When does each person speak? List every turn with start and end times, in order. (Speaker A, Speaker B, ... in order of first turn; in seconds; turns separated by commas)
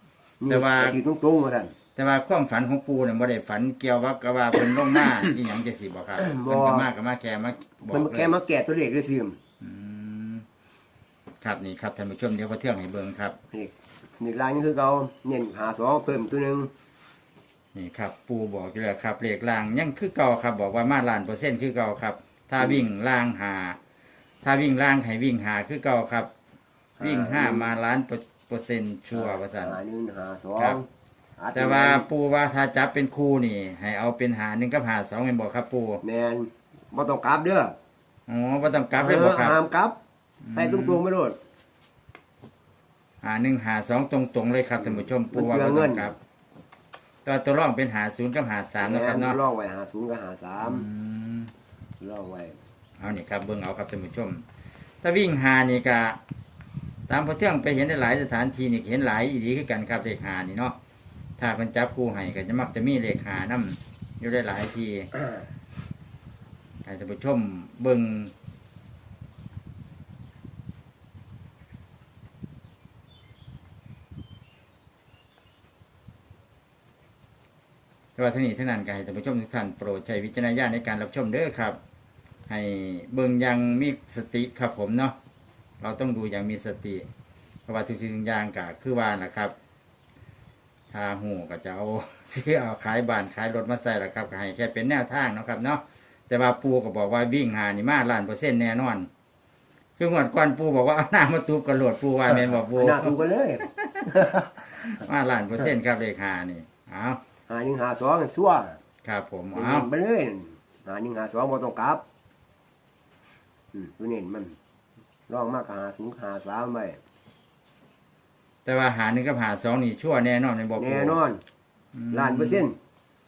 Speaker A: 0.4-1.7, Speaker B: 0.5-1.0, Speaker B: 2.0-8.4, Speaker A: 4.6-5.4, Speaker A: 6.2-6.9, Speaker A: 7.9-9.4, Speaker B: 9.6-10.4, Speaker B: 11.4-13.4, Speaker A: 13.5-16.7, Speaker B: 17.7-23.8, Speaker A: 22.6-22.9, Speaker B: 24.4-26.3, Speaker A: 27.0-27.7, Speaker B: 27.0-29.8, Speaker A: 29.1-30.9, Speaker A: 31.4-32.1, Speaker B: 31.5-36.0, Speaker A: 36.0-37.8, Speaker B: 38.3-39.6, Speaker A: 38.9-40.0, Speaker B: 40.4-41.0, Speaker A: 40.5-41.4, Speaker B: 43.2-46.2, Speaker A: 44.8-46.2, Speaker B: 47.2-49.4, Speaker A: 48.8-50.9, Speaker B: 50.6-51.5, Speaker A: 52.0-52.6, Speaker B: 53.0-54.4, Speaker B: 55.0-56.2, Speaker B: 57.1-60.8, Speaker B: 61.4-65.1, Speaker B: 66.8-68.3, Speaker B: 78.2-81.8, Speaker B: 82.5-85.2, Speaker B: 85.8-87.1, Speaker B: 87.7-89.5, Speaker B: 90.9-99.1, Speaker B: 100.0-107.2, Speaker A: 102.3-104.5, Speaker A: 107.5-108.8, Speaker B: 109.0-109.9, Speaker A: 109.5-112.0, Speaker A: 113.7-114.6, Speaker A: 115.3-117.0, Speaker B: 118.7-121.2, Speaker A: 120.8-121.4, Speaker B: 121.9-122.7, Speaker A: 122.1-122.8